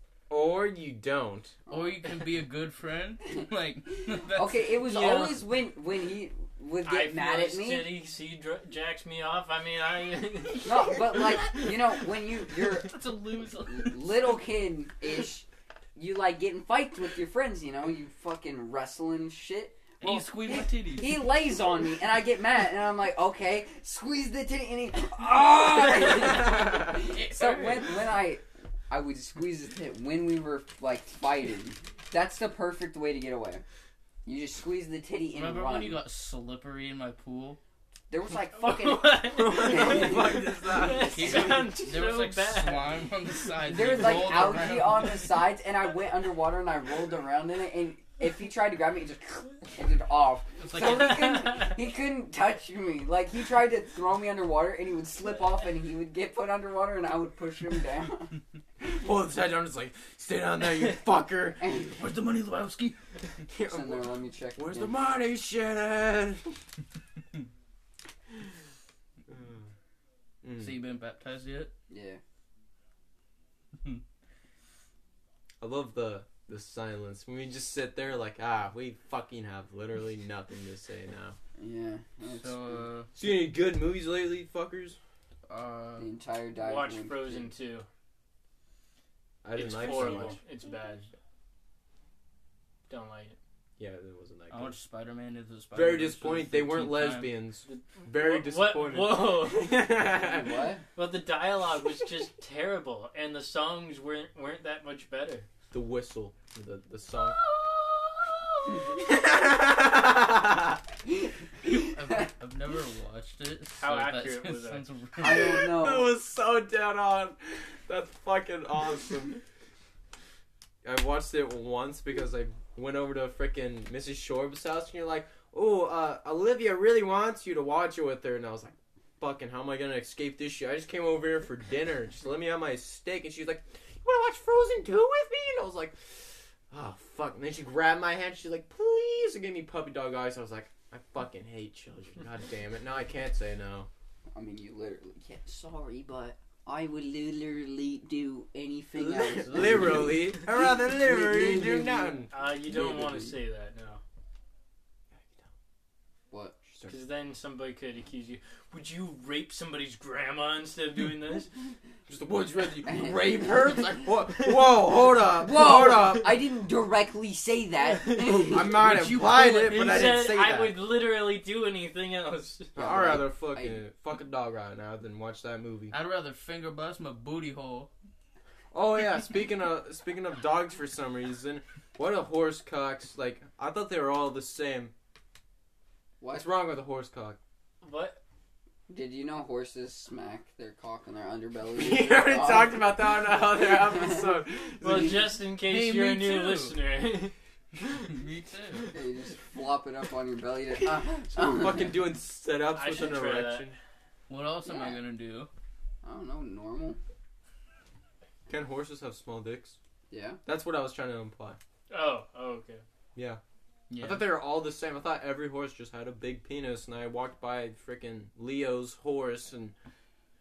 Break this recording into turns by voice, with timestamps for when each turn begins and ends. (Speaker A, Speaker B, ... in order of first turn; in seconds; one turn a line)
Speaker A: 0.3-1.6
Speaker B: 1.7-2.1
Speaker C: 1.7-5.2
Speaker B: 4.2-7.9
Speaker D: 4.8-5.4
Speaker D: 6.8-10.9
Speaker B: 10.6-33.6
Speaker C: 10.8-11.9
Speaker C: 12.5-14.4
Speaker C: 20.0-21.3
Speaker C: 26.4-28.1
Speaker B: 34.2-36.0
Speaker C: 35.3-37.6
Speaker B: 38.1-40.5
Speaker D: 38.5-42.9
Speaker A: 39.3-41.5
Speaker C: 41.0-45.5
Speaker B: 43.6-58.3
Speaker C: 50.6-51.4
Speaker D: 50.9-51.7
Speaker A: 58.8-61.6
Speaker B: 61.6-62.0
Speaker C: 61.8-63.0
Speaker A: 63.5-66.6
Speaker B: 63.6-64.9
Speaker A: 69.3-69.7
Speaker A: 70.4-70.8
Speaker C: 70.6-71.7
Speaker B: 71.9-72.2
Speaker A: 75.6-81.4
Speaker B: 81.6-82.9
Speaker C: 82.2-83.1
Speaker A: 83.1-85.0
Speaker C: 85.5-86.1
Speaker B: 86.0-87.5
Speaker D: 86.6-87.9
Speaker A: 89.4-90.4
Speaker D: 89.5-91.0
Speaker C: 89.9-90.3
Speaker D: 92.9-93.4
Speaker A: 93.8-94.7
Speaker C: 94.5-97.3
Speaker A: 95.7-100.5
Speaker D: 97.7-99.9
Speaker B: 100.2-100.8
Speaker D: 100.9-105.5
Speaker A: 105.7-107.4
Speaker A: 108.8-110.8
Speaker B: 111.6-112.3
Speaker C: 111.6-115.7
Speaker D: 113.8-114.8
Speaker B: 115.2-116.1
Speaker A: 115.2-119.4
Speaker A: 120.8-143.9
Speaker B: 144.3-153.3
Speaker A: 148.9-152.3
Speaker D: 152.3-154.0
Speaker A: 155.2-155.5
Speaker B: 156.3-156.7
Speaker D: 156.9-161.5
Speaker A: 162.1-166.4
Speaker B: 162.9-163.8
Speaker B: 165.4-168.8
Speaker A: 168.2-170.7
Speaker C: 168.7-169.8
Speaker D: 169.6-172.8
Speaker B: 172.7-173.8
Speaker A: 172.8-175.9
Speaker C: 175.9-177.9
Speaker A: 178.7-184.9
Speaker B: 186.2-186.4
Speaker A: 186.3-187.4
Speaker D: 187.8-188.2
Speaker B: 188.9-192.9
Speaker A: 191.7-195.3
Speaker B: 193.7-194.2
Speaker D: 194.8-197.3
Speaker C: 195.6-196.8
Speaker C: 198.0-198.9
Speaker B: 198.9-201.9
Speaker A: 200.8-203.8
Speaker D: 202.7-203.7
Speaker C: 204.3-205.5
Speaker B: 204.6-205.0
Speaker B: 206.0-207.0
Speaker A: 208.5-209.8
Speaker B: 210.1-210.4
Speaker A: 210.4-211.6
Speaker D: 211.9-212.8
Speaker A: 213.1-213.4
Speaker C: 213.9-214.3
Speaker A: 214.0-219.7